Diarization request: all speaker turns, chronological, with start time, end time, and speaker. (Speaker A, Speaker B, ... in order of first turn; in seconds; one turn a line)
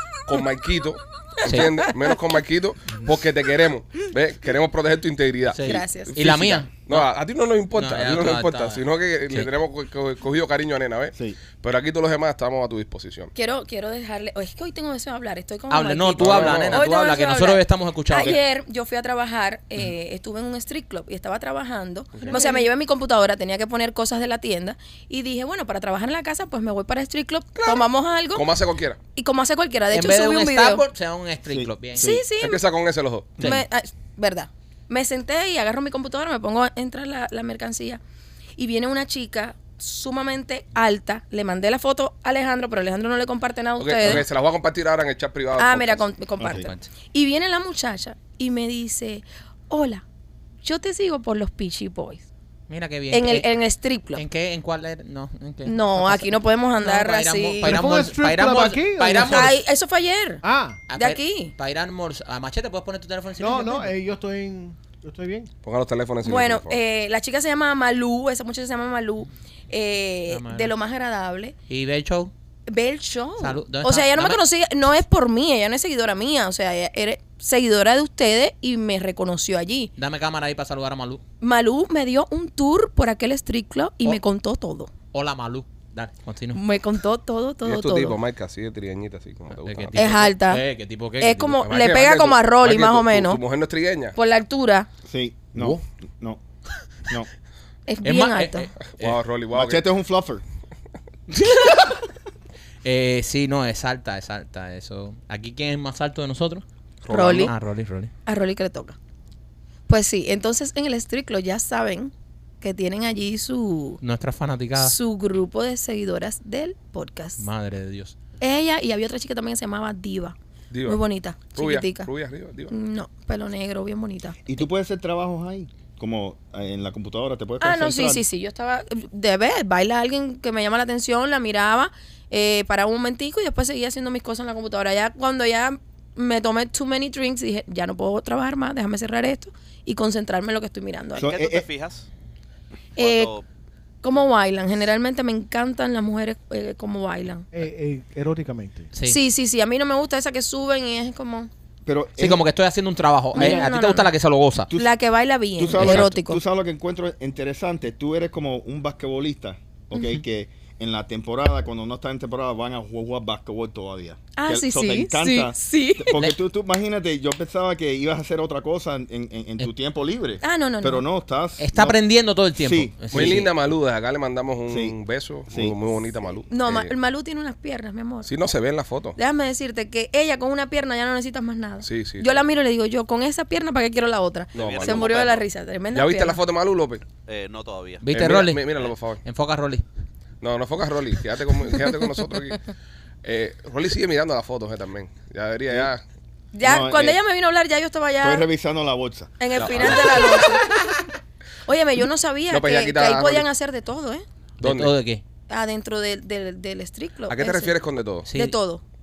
Speaker A: 0.2-13.3
Speaker B: 5.5-7.1
Speaker C: 5.6-6.2
Speaker B: 7.7-9.5
Speaker D: 11.1-11.4
Speaker C: 13.3-28.5
Speaker B: 15.7-18.4
Speaker A: 16.2-16.8
Speaker A: 22.1-22.5
Speaker A: 27.6-29.0
Speaker C: 29.1-30.8
Speaker B: 29.9-32.1
Speaker D: 31.4-32.2
Speaker C: 31.9-32.6
Speaker A: 32.4-33.4
Speaker C: 33.4-38.0
Speaker B: 33.4-33.6
Speaker C: 38.6-44.2
Speaker A: 43.8-46.1
Speaker C: 45.6-50.0
Speaker D: 46.4-46.7
Speaker B: 46.6-46.8
Speaker C: 50.6-52.2
Speaker B: 52.7-53.5
Speaker C: 53.1-54.2
Speaker B: 54.1-56.2
Speaker C: 55.6-57.8
Speaker B: 56.8-59.5
Speaker E: 57.6-59.5
Speaker C: 59.3-60.4
Speaker E: 60.4-60.8
Speaker B: 60.9-63.9
Speaker C: 60.9-61.5
Speaker E: 63.4-65.5
Speaker A: 65.6-66.8
Speaker C: 66.2-71.5
Speaker B: 70.3-70.7
Speaker B: 71.7-72.3
Speaker C: 72.7-79.9
Speaker B: 73.4-74.4
Speaker B: 80.0-81.2
Speaker C: 81.4-84.9
Speaker B: 85.1-86.6
Speaker C: 86.5-88.2
Speaker A: 87.6-90.2
Speaker B: 89.6-91.6
Speaker C: 89.9-90.6
Speaker C: 91.2-93.4
Speaker A: 91.6-94.2
Speaker C: 94.1-94.9
Speaker D: 95.0-96.4
Speaker C: 97.9-98.7
Speaker B: 98.0-99.2
Speaker A: 99.0-99.8
Speaker D: 99.5-100.4
Speaker B: 101.3-101.8
Speaker B: 102.8-108.1
Speaker A: 107.0-107.5
Speaker C: 107.1-107.5
Speaker C: 108.2-109.0
Speaker C: 109.9-114.0
Speaker B: 114.0-115.0
Speaker C: 114.8-117.4
Speaker B: 117.4-118.1
Speaker C: 118.4-122.1
Speaker A: 120.7-121.0
Speaker A: 121.5-122.7
Speaker C: 122.7-124.6
Speaker D: 124.5-128.2
Speaker C: 127.6-141.3
Speaker F: 141.1-142.1
Speaker D: 141.2-141.7
Speaker C: 143.0-143.3
Speaker F: 143.0-143.4
Speaker C: 144.0-147.5
Speaker E: 147.5-148.9
Speaker C: 149.0-151.5
Speaker D: 151.8-152.4
Speaker B: 152.2-154.7
Speaker C: 153.3-154.1
Speaker D: 153.3-153.7
Speaker C: 154.7-156.4
Speaker D: 155.6-172.0
Speaker B: 155.7-156.1
Speaker C: 164.3-166.2
Speaker C: 170.4-171.0
Speaker B: 171.6-173.5
Speaker D: 172.6-173.4
Speaker A: 173.1-176.9
Speaker D: 174.7-175.0
Speaker D: 175.5-175.7
Speaker C: 176.5-178.3
Speaker A: 178.2-179.2
Speaker C: 179.2-186.4
Speaker A: 181.8-182.4
Speaker F: 184.5-185.4
Speaker A: 184.5-185.2
Speaker A: 185.9-187.0
Speaker F: 187.2-188.1
Speaker B: 188.0-189.8
Speaker A: 188.1-189.2
Speaker A: 190.4-192.7
Speaker A: 193.2-196.0
Speaker C: 196.5-198.5
Speaker D: 196.6-197.2
Speaker D: 198.2-200.0
Speaker C: 199.4-200.7
Speaker A: 199.6-200.2
Speaker C: 201.7-204.2
Speaker A: 202.5-203.5
Speaker B: 204.6-205.2
Speaker A: 204.6-204.9
Speaker C: 205.5-207.8
Speaker A: 207.3-208.3
Speaker B: 208.2-208.5
Speaker C: 208.3-208.8